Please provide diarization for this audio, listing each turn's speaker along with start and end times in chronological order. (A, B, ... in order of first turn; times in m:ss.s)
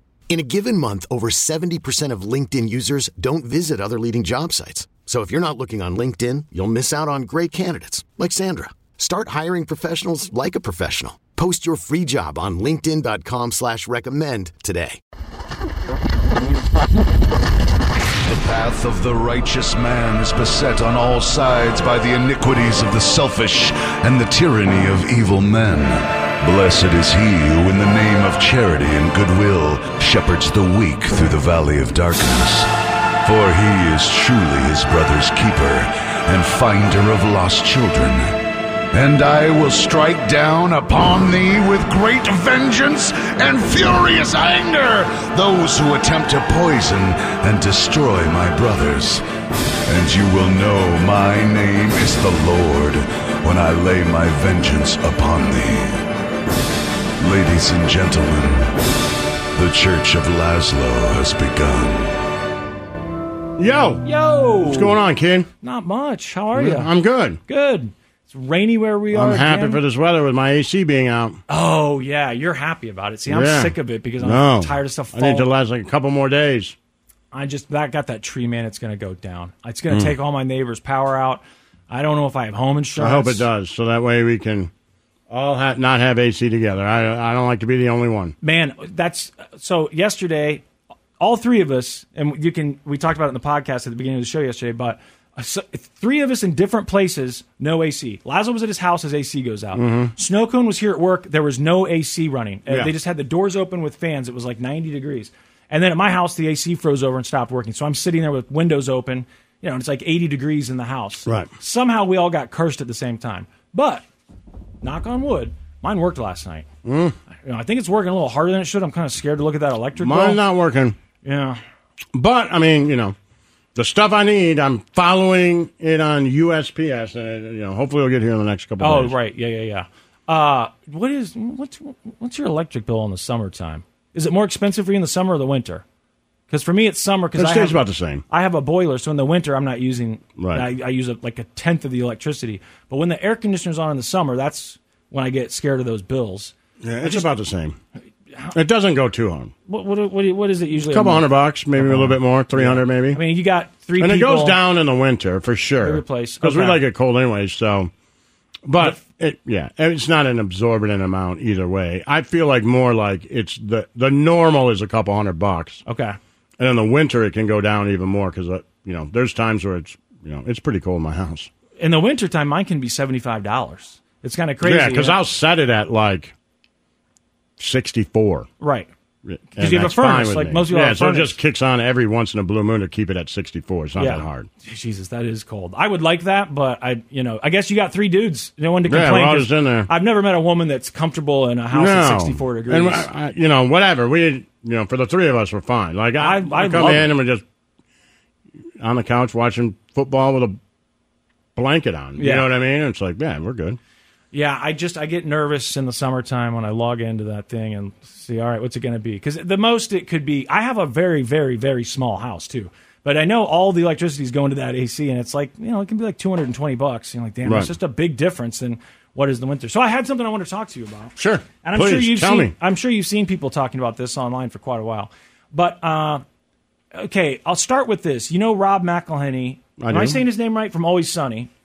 0:00.3-0:15.0 A
0:18.2-0:32.7 B
0:33.2-0:38.4 B
0:38.9-0:49.2 B
0:49.9-0:56.0 B
0:57.2-0:58.7 B
0:59.5-1:02.2 B
1:03.6-1:04.0 C
1:04.0-1:05.0 D
1:04.6-1:05.5 C
1:05.6-1:06.9 D
1:06.5-1:07.4 C
1:07.5-1:09.8 D
1:09.1-1:11.4 C
1:11.5-1:15.5 D
1:13.3-1:16.7 C
1:17.3-1:23.4 D
1:19.9-1:20.1 C
1:23.0-1:24.7 C
1:25.3-1:28.3 C
1:28.4-1:30.6 D
1:31.2-1:54.0 D
1:39.7-1:40.1 C
1:42.7-1:42.9 C
1:51.2-1:51.5 C
1:54.8-1:56.7 D
1:56.8-1:57.2 C
1:57.4-2:00.4 D
2:00.0-2:01.0 C
2:01.2-2:01.6 D
2:02.1-2:03.1 C
2:03.8-2:09.1 C
2:08.8-2:15.8 D
2:16.5-2:17.8 D
2:17.4-2:18.2 C
2:18.3-2:27.2 D
2:20.4-2:20.6 C
2:26.8-2:27.8 C
2:28.5-2:29.5 C
2:29.7-2:34.6 D
2:30.9-2:33.2 C
2:34.0-2:37.9 C
2:35.8-2:36.8 D
2:38.6-2:45.8 C
2:45.8-2:46.2 D
2:46.6-2:51.5 C
2:51.8-2:55.2 D
2:54.6-2:56.3 C
2:57.6-2:58.5 C
2:58.6-2:58.9 D
2:59.2-3:04.5 C
2:59.6-3:01.3 D
3:04.0-3:13.1 D
3:08.8-3:09.9 C
3:11.7-3:17.4 C
3:16.2-3:17.1 D
3:18.8-3:20.6 C
3:21.6-3:23.8 C
3:22.2-3:22.5 D
3:24.3-3:46.2 D
3:37.4-3:37.7 C
3:41.2-3:42.5 C
3:46.9-3:51.5 D
3:49.8-3:50.2 C